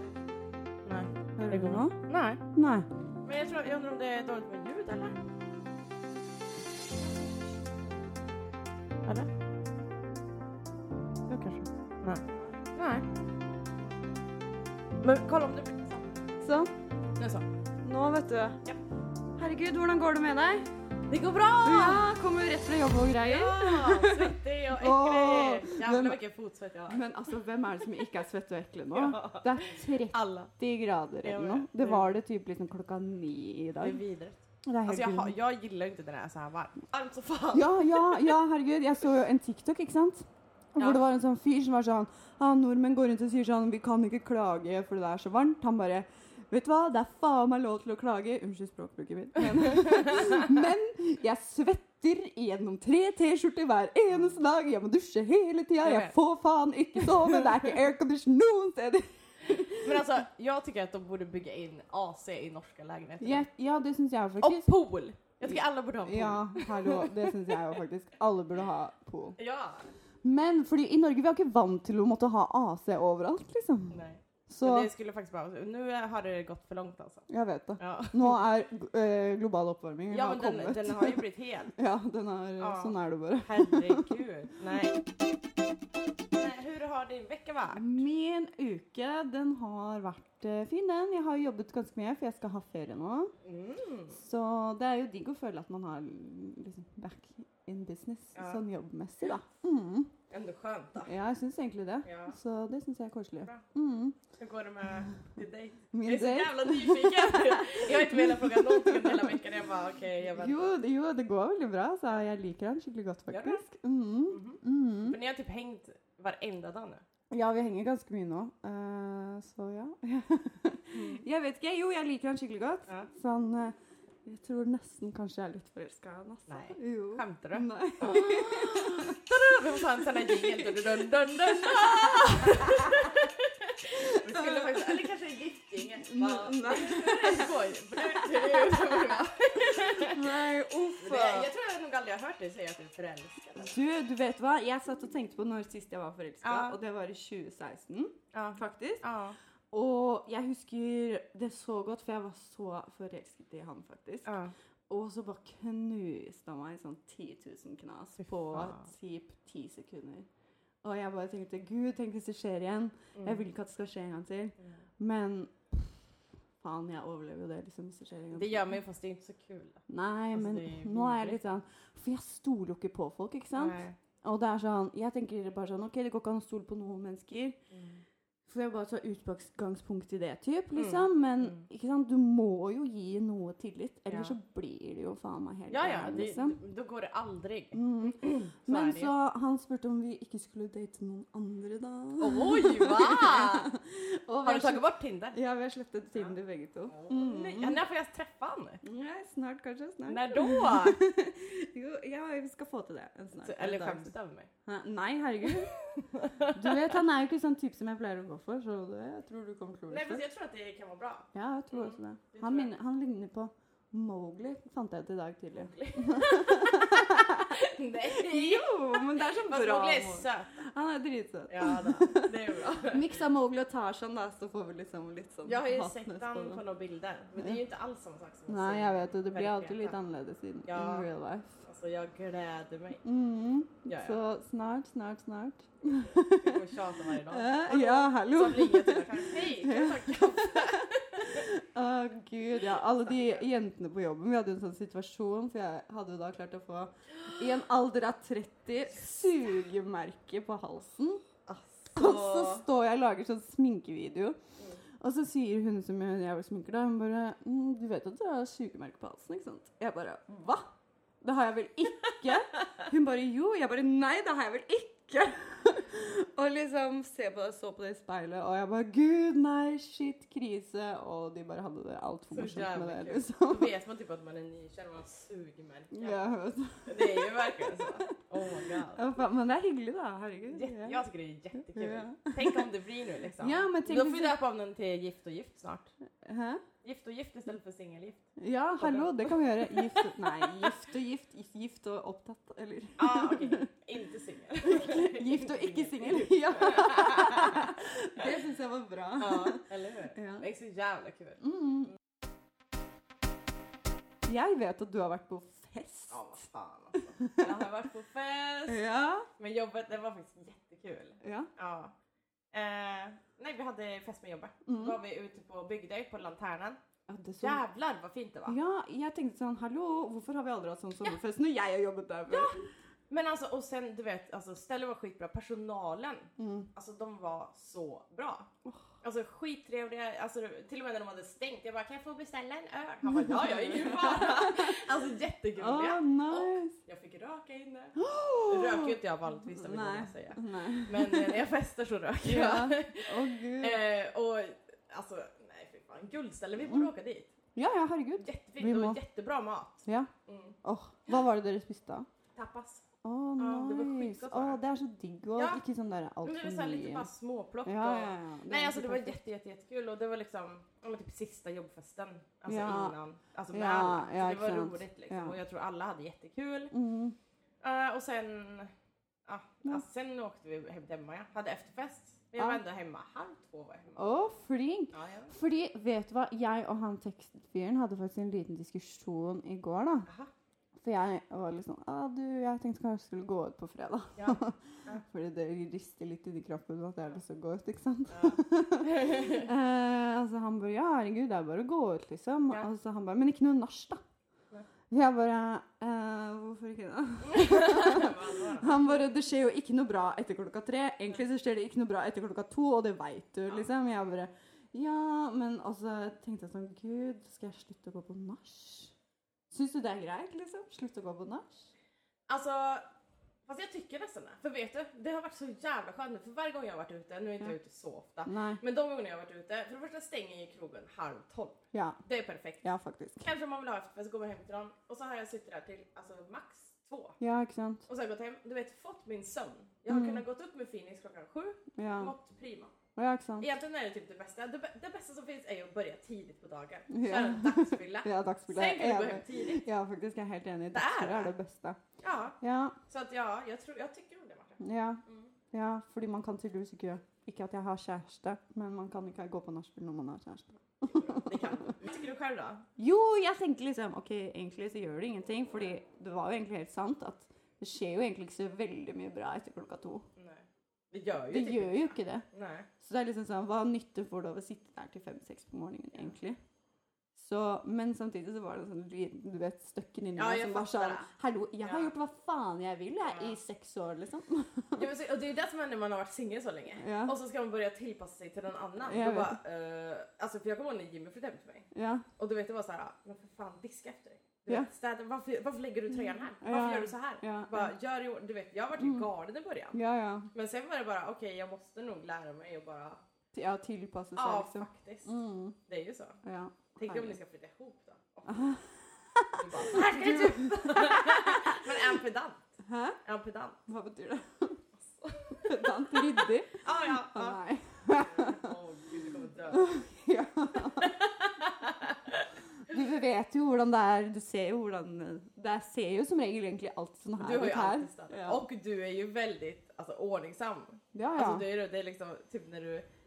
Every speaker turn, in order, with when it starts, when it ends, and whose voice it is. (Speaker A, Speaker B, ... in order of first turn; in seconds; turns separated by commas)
Speaker A: 0.8-2.4, Speaker B: 1.4-2.0, Speaker B: 2.5-2.9, Speaker A: 3.2-5.2, Speaker B: 11.3-11.6, Speaker A: 12.0-13.1, Speaker A: 15.0-16.2, Speaker B: 16.4-16.7, Speaker A: 17.2-17.5, Speaker B: 17.8-18.6, Speaker B: 19.4-20.7, Speaker A: 21.1-22.1, Speaker B: 21.6-26.2, Speaker A: 23.2-27.3, Speaker B: 26.9-34.0, Speaker A: 28.9-30.5, Speaker A: 31.2-32.1, Speaker A: 33.8-38.4, Speaker B: 34.6-35.4, Speaker B: 37.5-60.1, Speaker A: 49.5-50.6, Speaker A: 54.1-54.4, Speaker A: 55.8-56.2, Speaker A: 57.0-57.7, Speaker A: 59.8-63.5, Speaker B: 63.2-64.7, Speaker A: 64.4-67.8, Speaker B: 65.4-69.4, Speaker A: 69.4-69.9, Speaker B: 70.2-74.9, Speaker A: 73.9-78.4, Speaker B: 77.3-81.2, Speaker A: 80.1-81.8, Speaker B: 81.7-84.2, Speaker A: 82.6-85.0, Speaker A: 86.3-88.0, Speaker B: 87.7-93.3, Speaker A: 93.4-94.2, Speaker B: 94.2-100.1, Speaker A: 98.3-98.6, Speaker A: 100.3-101.1, Speaker B: 101.0-104.2, Speaker A: 102.0-102.4, Speaker A: 104.4-110.6, Speaker B: 105.9-109.4, Speaker B: 110.3-115.2, Speaker A: 113.3-113.6, Speaker A: 114.3-117.0, Speaker B: 117.3-133.2, Speaker A: 120.9-121.2, Speaker A: 126.5-140.4, Speaker B: 133.9-135.0, Speaker B: 136.0-141.5, Speaker A: 141.0-143.8, Speaker B: 143.6-149.0, Speaker A: 146.4-146.8, Speaker A: 148.3-149.4, Speaker B: 149.7-154.3, Speaker A: 154.2-154.5, Speaker B: 154.9-160.3, Speaker A: 158.2-158.9, Speaker B: 160.8-168.7, Speaker A: 163.1-163.5, Speaker A: 164.6-164.8, Speaker A: 168.3-171.4, Speaker B: 169.9-177.6, Speaker A: 173.6-173.9, Speaker A: 177.7-178.0, Speaker B: 178.4-186.6, Speaker A: 180.7-181.7, Speaker A: 184.1-184.3, Speaker A: 185.7-189.1, Speaker B: 187.7-197.8, Speaker A: 192.2-193.7, Speaker A: 194.4-195.4, Speaker A: 196.9-198.8, Speaker B: 198.8-204.1, Speaker A: 200.1-201.0, Speaker A: 203.4-204.5, Speaker B: 204.7-210.2, Speaker A: 206.0-206.9, Speaker A: 209.9-212.7, Speaker B: 211.3-217.6, Speaker A: 215.5-220.7, Speaker B: 218.1-226.6, Speaker A: 221.5-223.2, Speaker A: 225.4-229.9, Speaker B: 228.5-231.6, Speaker A: 230.7-231.1, Speaker A: 231.6-233.0, Speaker B: 233.0-236.6, Speaker A: 233.9-234.3, Speaker A: 235.9-241.5, Speaker B: 237.2-251.2, Speaker A: 242.8-243.4, Speaker A: 251.5-252.6, Speaker B: 251.9-254.4, Speaker A: 254.6-254.8, Speaker B: 254.9-260.7, Speaker B: 261.2-273.7, Speaker A: 272.3-276.2, Speaker B: 275.9-278.0, Speaker A: 276.8-279.1, Speaker B: 278.8-281.0, Speaker A: 280.5-285.9, Speaker B: 281.5-282.7, Speaker B: 283.4-284.4, Speaker B: 286.2-286.6, Speaker A: 286.8-290.8, Speaker B: 288.4-293.7, Speaker A: 293.0-298.3, Speaker B: 294.6-299.6, Speaker A: 299.2-301.4, Speaker B: 300.1-300.4, Speaker B: 301.4-301.9, Speaker B: 304.2-306.2, Speaker A: 306.1-308.8, Speaker B: 307.0-307.6, Speaker B: 308.7-309.3, Speaker A: 309.4-311.9, Speaker B: 311.2-311.5, Speaker A: 312.5-316.8, Speaker B: 314.6-315.0, Speaker B: 317.1-317.6, Speaker A: 317.4-318.6, Speaker B: 318.5-322.6, Speaker A: 322.3-328.5, Speaker B: 326.4-326.7, Speaker A: 329.0-347.3, Speaker B: 333.0-334.9, Speaker B: 335.6-336.7, Speaker B: 338.0-341.4, Speaker B: 342.2-343.8, Speaker B: 346.6-346.9, Speaker B: 347.5-349.0, Speaker A: 348.2-350.6, Speaker B: 349.8-350.1, Speaker B: 350.6-352.1, Speaker A: 352.3-352.8, Speaker B: 353.0-357.1, Speaker A: 353.4-354.6, Speaker A: 355.4-355.6, Speaker A: 356.2-366.7, Speaker B: 357.6-359.2, Speaker B: 362.5-362.9, Speaker B: 363.5-365.4, Speaker B: 366.7-367.1, Speaker A: 367.6-368.7, Speaker A: 369.2-374.1, Speaker B: 372.4-372.6, Speaker B: 374.0-380.1, Speaker A: 374.9-375.4, Speaker B: 380.8-394.0, Speaker A: 384.2-385.0, Speaker A: 388.1-389.5, Speaker B: 394.9-408.9, Speaker A: 397.2-399.1, Speaker B: 409.5-411.7, Speaker A: 412.3-412.8, Speaker A: 413.5-422.6, Speaker B: 418.2-418.6, Speaker B: 421.7-422.0, Speaker B: 422.6-423.3, Speaker A: 423.2-427.2, Speaker B: 427.2-427.8, Speaker A: 427.9-432.7, Speaker B: 429.9-430.2, Speaker B: 431.8-432.1, Speaker B: 432.9-433.5, Speaker A: 433.4-439.6, Speaker B: 436.9-441.8, Speaker A: 440.7-441.3, Speaker A: 442.0-442.4, Speaker B: 442.4-442.8, Speaker A: 442.9-445.3, Speaker B: 444.6-451.7, Speaker A: 450.9-452.6, Speaker B: 452.8-460.1, Speaker A: 460.2-462.7, Speaker B: 461.3-462.2, Speaker B: 462.8-466.4, Speaker B: 467.1-474.9, Speaker A: 470.1-471.1, Speaker A: 471.6-471.9, Speaker A: 473.0-473.4, Speaker A: 474.7-489.8, Speaker B: 476.8-477.1, Speaker B: 478.8-479.4, Speaker B: 481.7-482.1, Speaker B: 485.9-487.7, Speaker B: 488.8-489.1, Speaker B: 489.7-490.3, Speaker A: 490.3-493.0, Speaker B: 493.3-495.6, Speaker A: 494.1-495.1, Speaker A: 495.7-496.2, Speaker B: 496.2-497.2, Speaker A: 496.8-498.5, Speaker B: 498.3-501.8, Speaker A: 499.3-502.5, Speaker B: 502.6-503.0, Speaker A: 503.0-503.6, Speaker B: 503.7-504.6, Speaker A: 504.8-509.7, Speaker B: 505.4-508.5, Speaker B: 509.5-510.9, Speaker A: 510.6-512.7, Speaker B: 512.6-518.4, Speaker A: 517.2-522.8, Speaker B: 520.9-521.5